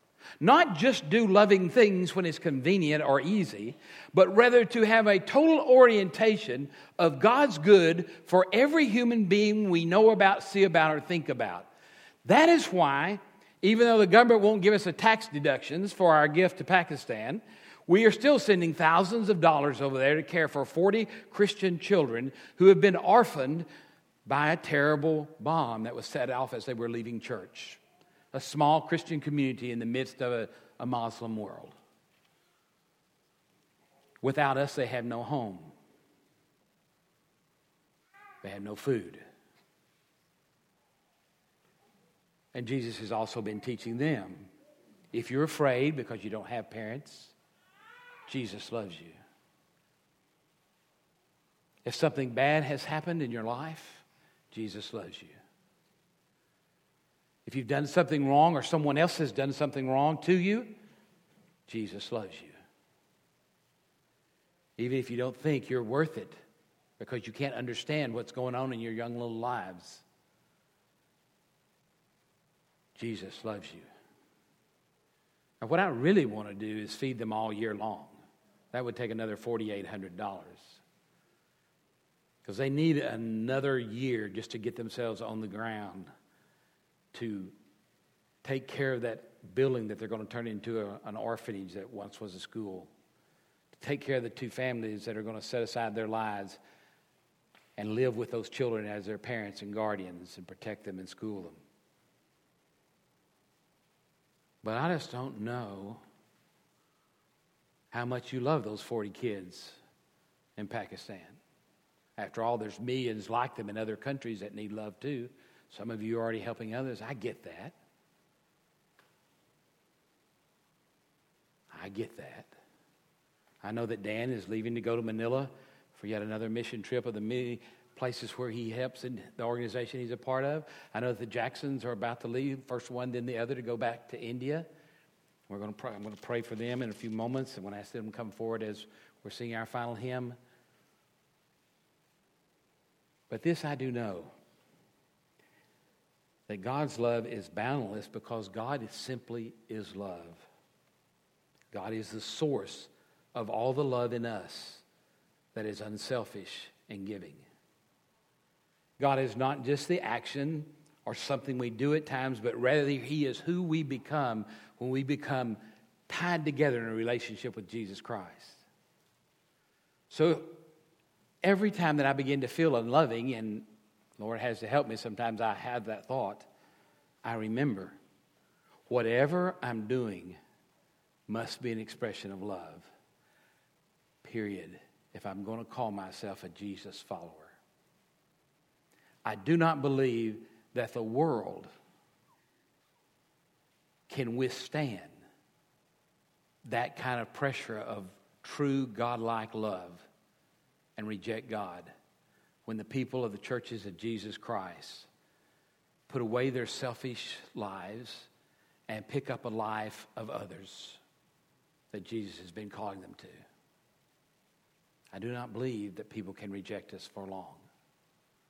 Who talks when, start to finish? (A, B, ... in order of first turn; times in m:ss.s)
0:00.4-0:11.7 A
0:12.2-0:23.6 A
0:24.2-0:27.8 A
0:28.3-0:31.7 A
0:34.2-0:35.7 A
0:38.4-0:39.2 A
0:42.5-0:44.5 A
0:45.1-0:47.3 A
0:48.3-0:49.2 A
0:51.8-0:55.3 A
0:57.4-1:00.7 A
1:01.7-1:02.5 A
1:04.8-1:06.3 A
1:07.0-1:10.0 A
1:13.0-1:13.8 A
1:15.6-1:18.2 A
1:18.7-1:20.8 A
1:22.4-1:26.1 A
1:27.1-1:27.5 A
1:28.4-1:32.9 A
1:33.7-1:36.6 A
1:37.8-1:41.6 A
1:44.6-1:46.0 A
1:47.9-1:49.8 A
1:50.6-1:51.4 A
1:52.2-1:57.7 A
2:01.7-2:02.5 A
2:03.6-2:14.7 A
2:15.5-2:20.4 A
2:23.3-2:24.3 A
2:26.5-2:30.4 A
2:31.7-2:34.8 A
2:35.5-2:37.4 A
2:39.0-2:48.6 A
2:50.1-2:50.5 A
2:51.4-2:53.6 A
2:54.2-2:56.5 A
2:57.2-2:58.0 A
2:58.9-3:00.4 A
3:01.3-3:02.9 A
3:04.2-3:07.5 A
3:09.2-3:11.7 A
3:14.1-3:15.1 A
3:16.6-3:20.0 A
3:21.0-3:21.9 A
3:22.7-3:25.1 A
3:26.1-3:28.3 A
3:28.9-3:31.0 A
3:31.9-3:33.4 A
3:35.1-3:37.7 A